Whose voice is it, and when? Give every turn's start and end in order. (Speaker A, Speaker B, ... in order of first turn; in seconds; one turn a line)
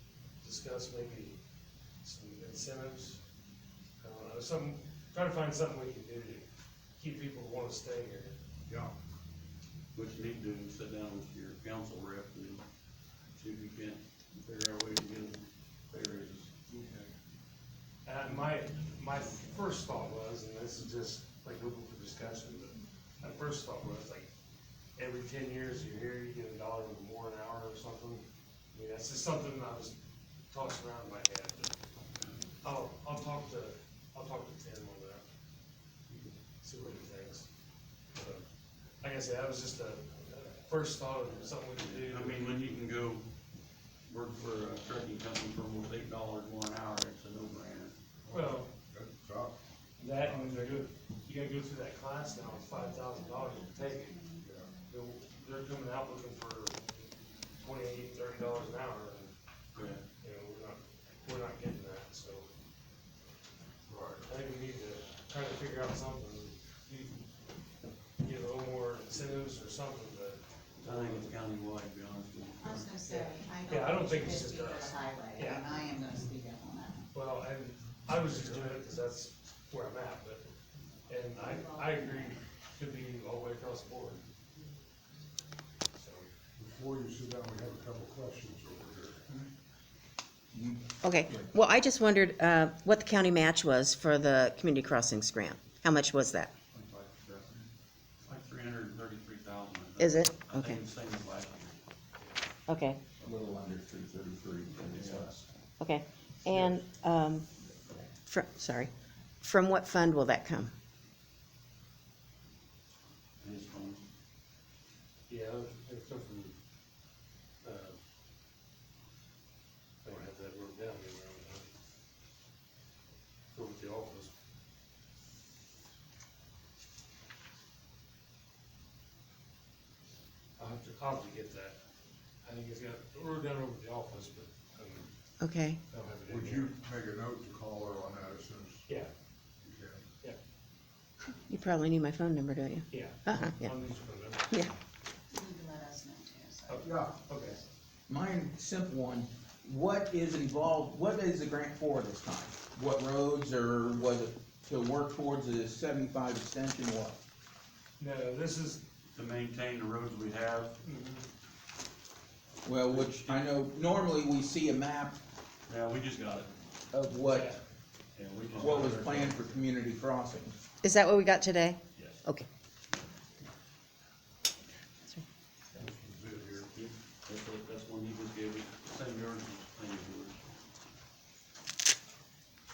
Speaker A: 0.4-1.4
Speaker A: 2.0-3.2
Speaker A: 4.0-6.5
Speaker A: 7.0-8.3
Speaker B: 8.7-8.9
Speaker C: 9.9-12.6
Speaker C: 13.4-16.9
Speaker A: 18.1-24.3
Speaker A: 25.0-29.9
Speaker A: 30.5-31.7
Speaker A: 32.6-35.2
Speaker A: 36.6-37.5
Speaker A: 38.1-38.4
Speaker A: 39.0-42.5
Speaker C: 41.8-43.2
Speaker C: 44.1-47.9
Speaker B: 48.2-49.6
Speaker A: 48.3-48.7
Speaker A: 50.0-54.2
Speaker B: 50.1-50.9
Speaker D: 54.0-54.9
Speaker B: 54.4-54.7
Speaker A: 54.9-57.0
Speaker A: 57.6-59.3
Speaker C: 59.7-60.0
Speaker A: 60.2-62.5
Speaker B: 63.9-64.2
Speaker A: 64.3-67.2
Speaker A: 68.2-71.3
Speaker C: 70.8-72.9
Speaker D: 72.5-77.1
Speaker A: 73.1-75.6
Speaker A: 77.1-80.4
Speaker A: 81.1-84.2
Speaker D: 81.3-82.3
Speaker A: 86.0-86.3
Speaker B: 86.6-89.2
Speaker E: 90.5-90.9
Speaker F: 91.0-97.6
Speaker C: 98.2-101.8
Speaker F: 100.0-100.8
Speaker F: 102.7-103.0
Speaker E: 103.2-105.4
Speaker C: 104.8-105.4
Speaker F: 105.8-107.5
Speaker F: 108.3-108.9
Speaker F: 109.4-110.7
Speaker C: 113.4-114.0
Speaker A: 115.3-116.5
Speaker A: 117.6-118.0
Speaker A: 120.0-121.7
Speaker A: 123.5-124.3
Speaker A: 130.6-131.8
Speaker A: 132.4-135.1
Speaker F: 135.4-135.8
Speaker A: 135.9-136.7
Speaker B: 136.3-138.8
Speaker B: 139.6-140.0
Speaker F: 141.5-143.7
Speaker A: 142.9-144.5
Speaker D: 145.3-146.9
Speaker A: 146.7-147.6
Speaker B: 146.8-147.2
Speaker E: 148.1-157.2
Speaker A: 158.0-158.8
Speaker C: 159.1-160.8
Speaker A: 160.8-161.3
Speaker E: 162.6-165.2
Speaker C: 162.8-163.5
Speaker C: 165.7-166.5
Speaker E: 166.9-167.6
Speaker A: 167.3-167.6
Speaker C: 168.2-169.6
Speaker E: 168.6-170.6
Speaker F: 170.8-172.5
Speaker C: 172.0-172.2
Speaker B: 175.7-176.7
Speaker C: 176.7-180.5